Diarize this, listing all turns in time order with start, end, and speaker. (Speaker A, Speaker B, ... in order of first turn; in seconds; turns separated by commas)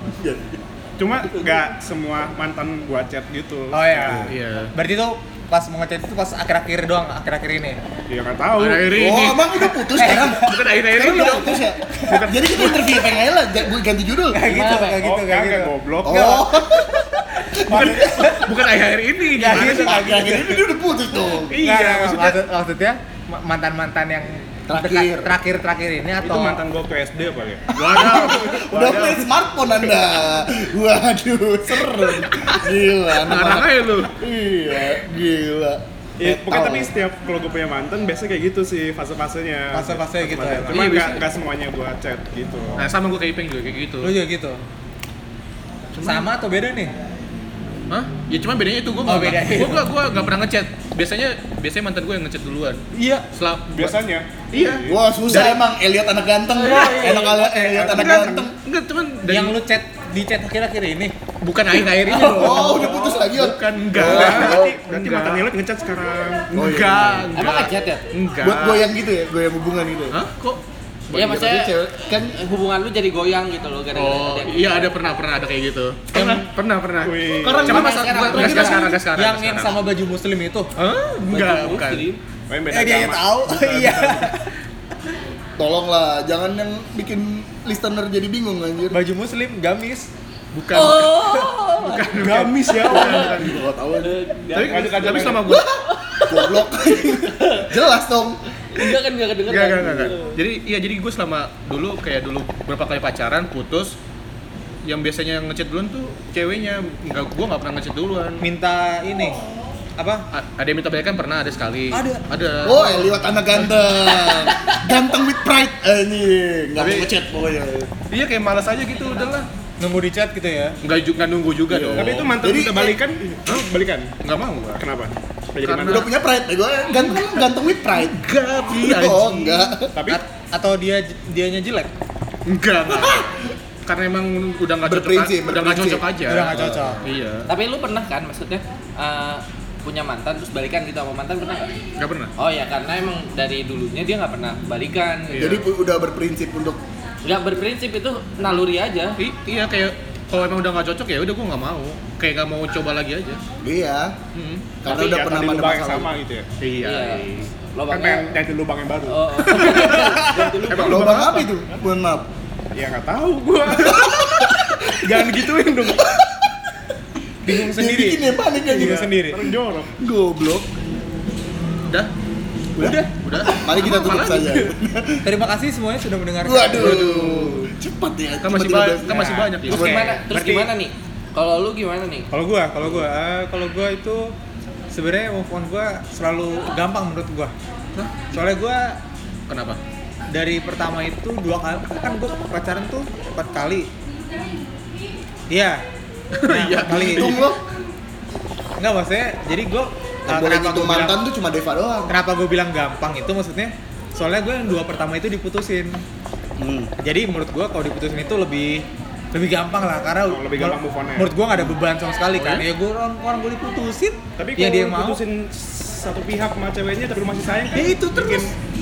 Speaker A: 0.2-0.6, Speaker B: 1.0-4.3, Speaker C: 3.7-7.8, Speaker D: 4.3-4.7, Speaker B: 8.1-9.2, Speaker D: 8.6-13.0, Speaker A: 8.9-14.4, Speaker C: 10.0-10.6, Speaker C: 14.3-15.7, Speaker E: 14.4-15.0, Speaker B: 15.0-16.6, Speaker A: 16.0-18.4, Speaker B: 17.7-18.0, Speaker D: 17.7-20.3, Speaker C: 17.7-18.4, Speaker C: 19.4-20.6, Speaker A: 19.8-21.6, Speaker D: 21.5-22.4, Speaker C: 21.6-26.6, Speaker A: 24.7-25.4, Speaker B: 26.2-29.3, Speaker D: 27.7-28.8, Speaker A: 27.9-36.9, Speaker D: 33.2-34.1, Speaker B: 36.2-42.9, Speaker C: 39.7-41.2, Speaker D: 40.7-41.2, Speaker D: 42.8-44.1, Speaker C: 44.0-44.6, Speaker C: 46.0-46.9, Speaker D: 47.9-52.8, Speaker C: 49.0-49.9, Speaker C: 52.9-53.3, Speaker D: 53.3-54.0, Speaker B: 53.7-55.0, Speaker D: 54.5-54.8, Speaker A: 54.9-58.5, Speaker C: 56.5-57.5, Speaker B: 57.7-58.3, Speaker D: 57.8-59.6, Speaker C: 59.3-61.1, Speaker D: 61.4-65.5, Speaker A: 62.3-64.8, Speaker C: 62.3-62.5, Speaker B: 62.5-63.1, Speaker B: 63.9-66.5, Speaker A: 66.5-67.4, Speaker D: 66.5-68.8, Speaker E: 67.3-68.0, Speaker A: 68.4-70.2, Speaker D: 70.1-70.6, Speaker A: 71.1-72.3, Speaker E: 71.1-74.9, Speaker D: 74.0-79.8, Speaker C: 76.1-76.4, Speaker B: 77.0-77.8, Speaker A: 77.4-78.9, Speaker E: 77.6-78.8, Speaker C: 78.4-80.7, Speaker D: 80.8-82.1, Speaker E: 81.3-82.2, Speaker B: 82.5-84.3, Speaker C: 82.7-84.4, Speaker A: 85.6-89.0, Speaker C: 88.9-90.1, Speaker D: 90.5-91.2, Speaker C: 90.6-91.5, Speaker E: 90.7-92.2, Speaker D: 91.8-93.2, Speaker B: 92.1-93.7, Speaker E: 92.8-93.4, Speaker A: 93.0-94.2, Speaker E: 94.0-97.7, Speaker D: 94.5-95.7, Speaker B: 94.7-95.5, Speaker A: 96.2-98.4, Speaker E: 98.7-100.3, Speaker D: 99.5-104.0, Speaker D: 104.8-108.5, Speaker C: 108.4-109.4, Speaker C: 110.0-110.3, Speaker D: 110.3-114.4, Speaker C: 111.9-112.8, Speaker A: 112.6-117.9, Speaker D: 116.8-117.1, Speaker D: 118.1-119.5, Speaker C: 119.8-120.8, Speaker D: 120.8-122.4, Speaker B: 121.7-124.1, Speaker A: 122.4-123.0, Speaker D: 124.2-124.8, Speaker B: 124.8-126.1, Speaker D: 125.6-126.1, Speaker A: 125.8-129.9, Speaker D: 128.7-129.8, Speaker B: 129.9-130.2, Speaker C: 130.1-131.9, Speaker D: 132.5-133.3, Speaker D: 133.9-137.5, Speaker A: 134.8-137.0, Speaker C: 136.3-137.1, Speaker E: 137.5-141.8, Speaker D: 142.0-142.3, Speaker E: 142.4-145.6, Speaker D: 145.3-145.6, Speaker A: 145.4-146.8, Speaker E: 147.3-149.2, Speaker D: 149.2-153.4, Speaker A: 153.6-154.2, Speaker D: 154.3-154.7, Speaker A: 154.8-156.1, Speaker B: 154.9-156.5, Speaker D: 156.6-157.5, Speaker E: 156.8-158.4, Speaker B: 157.9-161.5, Speaker E: 159.1-161.1, Speaker A: 160.7-162.3, Speaker B: 162.7-166.2, Speaker A: 163.7-166.6, Speaker A: 167.4-169.1, Speaker C: 167.5-169.4, Speaker B: 168.7-169.9, Speaker A: 170.0-170.7, Speaker C: 172.8-173.1, Speaker A: 172.8-175.3, Speaker D: 173.2-174.7, Speaker C: 175.2-177.2, Speaker A: 176.4-180.1, Speaker D: 176.7-177.7, Speaker D: 178.4-180.1, Speaker C: 179.1-180.2, Speaker E: 179.7-182.3, Speaker C: 182.3-184.3, Speaker C: 184.9-187.5, Speaker D: 187.9-188.3, Speaker C: 188.3-189.0, Speaker D: 189.5-189.8, Speaker C: 190.3-193.9, Speaker C: 195.5-195.8, Speaker D: 196.4-197.4, Speaker C: 196.5-197.4, Speaker A: 197.0-197.6, Speaker C: 198.8-201.2, Speaker A: 200.3-202.1, Speaker C: 202.1-206.0, Speaker A: 206.6-206.9, Speaker C: 207.0-215.2, Speaker B: 210.3-211.3, Speaker D: 212.3-212.7, Speaker B: 214.4-218.5, Speaker C: 217.7-218.5